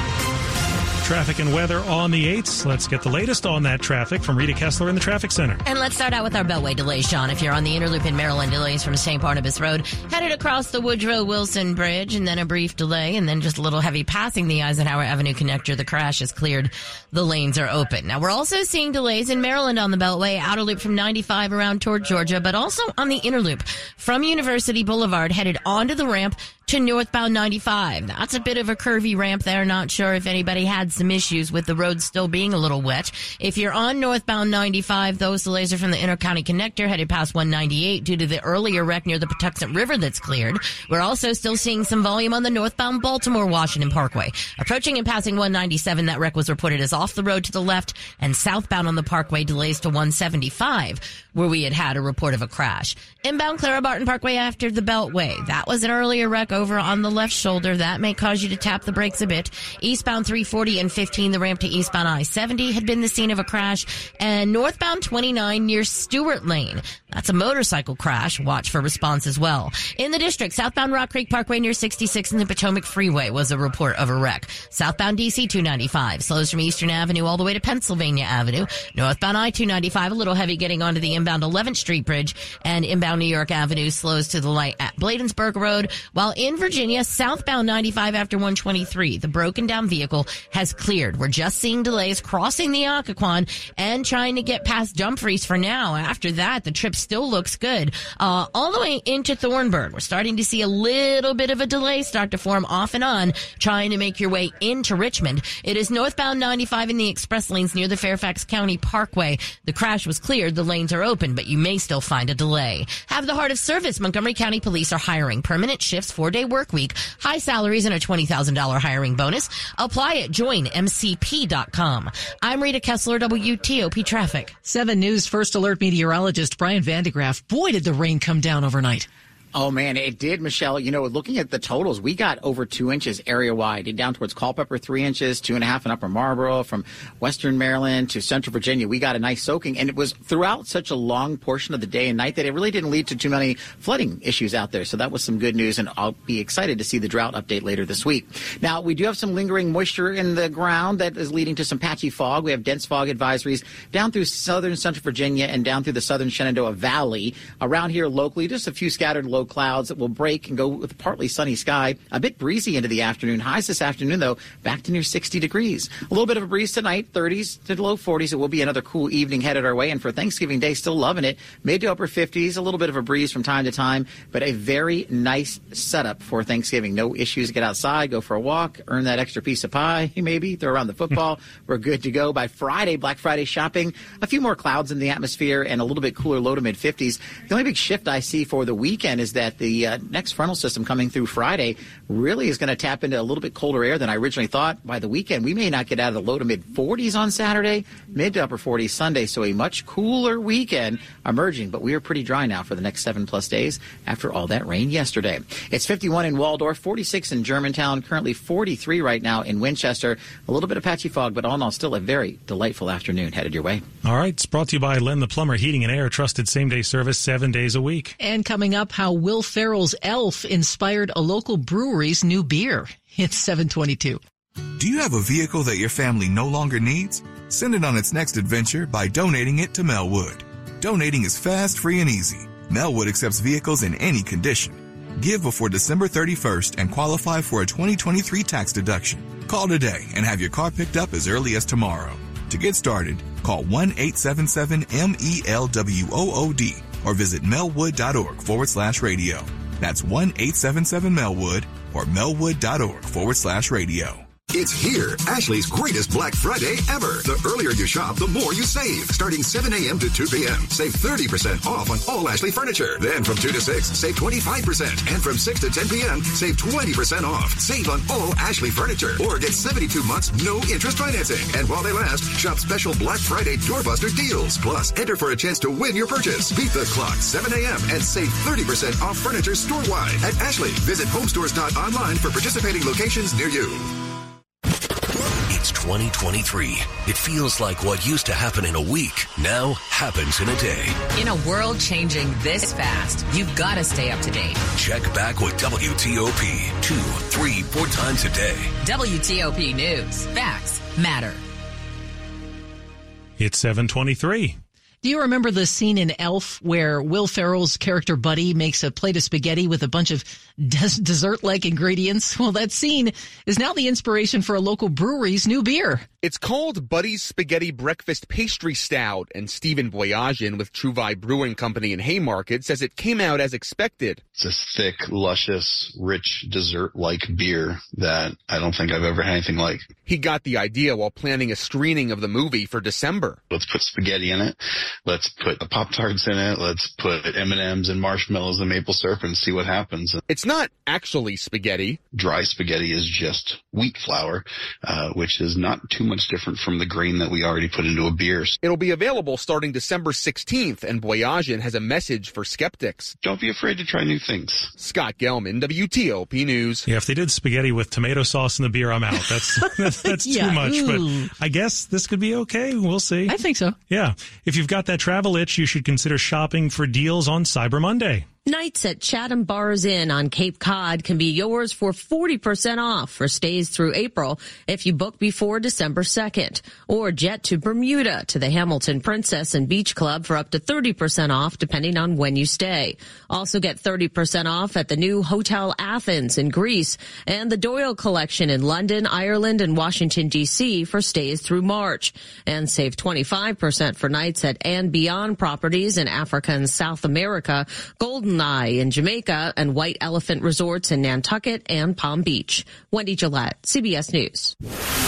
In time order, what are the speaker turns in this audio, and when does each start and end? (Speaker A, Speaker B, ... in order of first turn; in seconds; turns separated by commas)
Speaker A: 1.0-5.6, Speaker B: 5.6-124.5, Speaker C: 124.6-129.1, Speaker D: 129.5-213.8, Speaker A: 214.0-218.1, Speaker C: 218.2-224.2, Speaker E: 224.8-254.3, Speaker F: 254.5-283.9, Speaker G: 285.5-291.0, Speaker H: 291.1-294.6, Speaker G: 294.8-298.7, Speaker H: 298.8-301.4, Speaker A: 303.4-304.6, Speaker C: 305.0-316.1, Speaker I: 316.2-324.2, Speaker F: 324.4-329.8, Speaker I: 330.1-333.4, Speaker F: 333.5-340.2, Speaker I: 340.3-342.0, Speaker F: 342.1-348.5, Speaker I: 348.6-353.1, Speaker F: 353.2-354.7, Speaker I: 354.8-356.8, Speaker A: 356.9-363.3, Speaker C: 359.6-361.3, Speaker C: 363.3-363.8, Speaker A: 363.9-368.3, Speaker J: 368.4-404.5